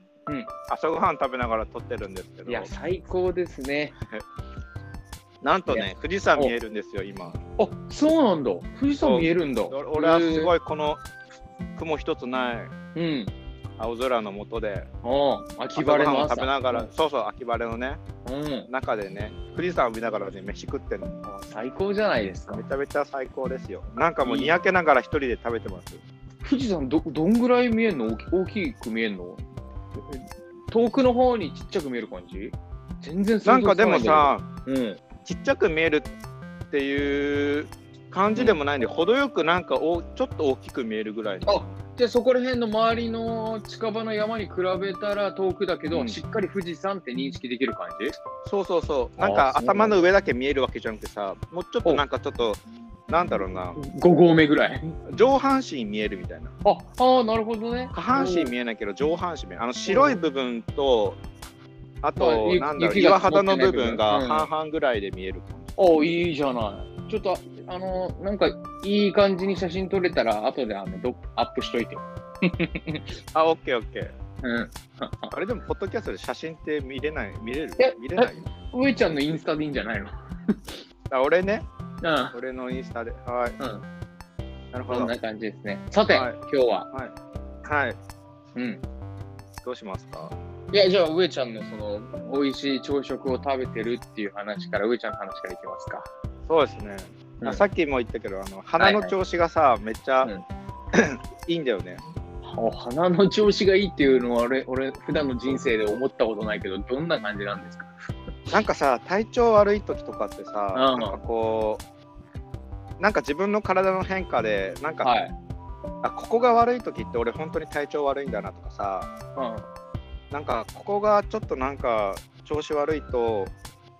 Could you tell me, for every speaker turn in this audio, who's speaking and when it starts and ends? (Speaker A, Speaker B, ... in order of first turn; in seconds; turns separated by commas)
Speaker A: 0.7-2.7, Speaker B: 2.5-4.0, Speaker A: 5.4-7.4, Speaker B: 5.7-6.5, Speaker B: 7.6-10.5, Speaker A: 9.0-11.0, Speaker A: 11.8-12.7, Speaker B: 12.9-13.3, Speaker A: 13.8-14.9, Speaker B: 15.0-16.9, Speaker A: 15.8-18.0, Speaker B: 18.2-18.7, Speaker A: 18.7-21.2, Speaker B: 21.2-22.6, Speaker A: 22.5-26.0, Speaker B: 24.2-24.5, Speaker B: 26.4-29.4, Speaker B: 29.9-35.0, Speaker A: 33.4-34.5, Speaker A: 35.2-36.1, Speaker A: 36.7-41.8, Speaker B: 38.3-38.6, Speaker B: 41.5-48.2, Speaker A: 45.9-46.2, Speaker A: 48.4-53.8, Speaker B: 49.2-50.0, Speaker B: 53.3-54.9, Speaker A: 55.0-56.5, Speaker B: 56.6-58.5, Speaker A: 57.9-61.2, Speaker B: 59.9-60.2, Speaker A: 62.0-66.1, Speaker B: 62.2-64.5, Speaker B: 65.8-73.1, Speaker A: 73.3-74.1, Speaker B: 74.4-75.3, Speaker A: 75.3-78.5, Speaker B: 77.8-80.8, Speaker A: 81.1-81.7, Speaker B: 82.0-82.3, Speaker A: 82.3-83.6, Speaker A: 84.7-85.1, Speaker B: 84.9-86.9, Speaker A: 86.1-86.3, Speaker A: 87.6-88.0, Speaker B: 88.5-88.8, Speaker A: 89.6-90.3, Speaker B: 90.7-96.1, Speaker A: 96.5-100.3, Speaker B: 98.8-99.1, Speaker A: 100.9-102.0, Speaker B: 102.4-108.1, Speaker A: 108.5-111.8, Speaker B: 110.7-111.2, Speaker A: 113.0-115.1, Speaker B: 115.0-115.3, Speaker A: 116.0-119.1, Speaker B: 119.3-119.7, Speaker A: 120.3-123.5